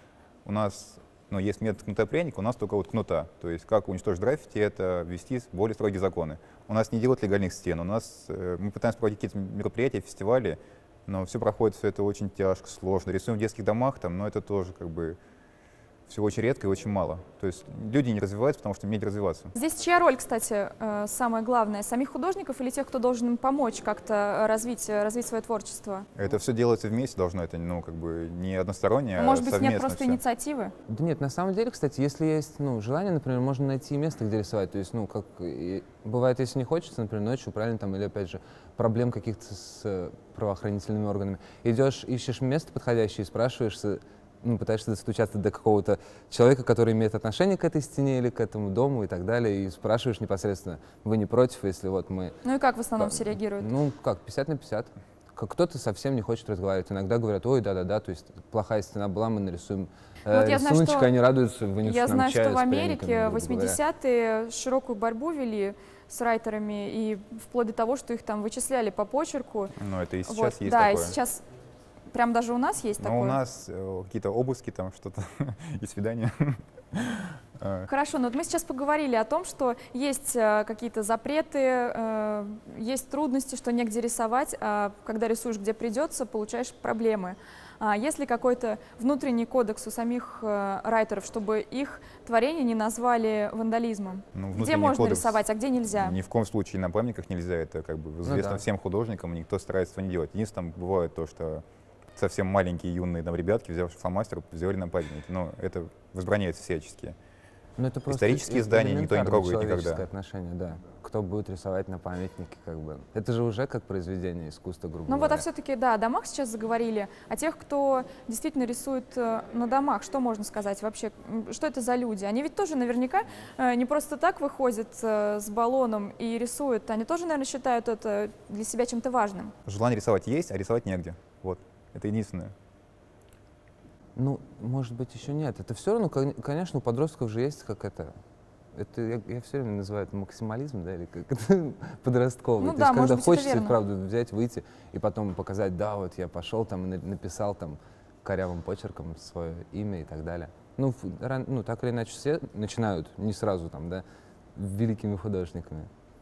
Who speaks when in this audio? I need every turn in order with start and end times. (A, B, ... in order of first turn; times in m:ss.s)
0:00.4-0:15.2 A
0:16.1-0:19.5 A
0:19.5-0:26.1 B
0:26.2-0:30.2 A
0:29.2-0:30.7 B
0:30.9-0:52.4 C
0:52.4-0:53.7 B
0:53.0-1:03.8 C
1:00.3-1:01.1 B
1:01.8-1:09.7 B
1:09.8-1:11.2 A
1:10.3-1:11.4 B
1:12.1-1:13.4 B
1:13.0-1:17.9 A
1:17.9-1:36.2 B
1:34.3-1:35.4 A
1:35.9-1:41.6 A
1:38.2-1:38.6 C
1:42.2-1:47.2 A
1:47.8-1:55.5 C
1:48.1-1:50.0 A
1:55.1-2:09.5 B
2:09.7-2:12.5 A
2:14.2-2:18.2 C
2:18.7-2:35.9 C
2:22.6-2:23.8 B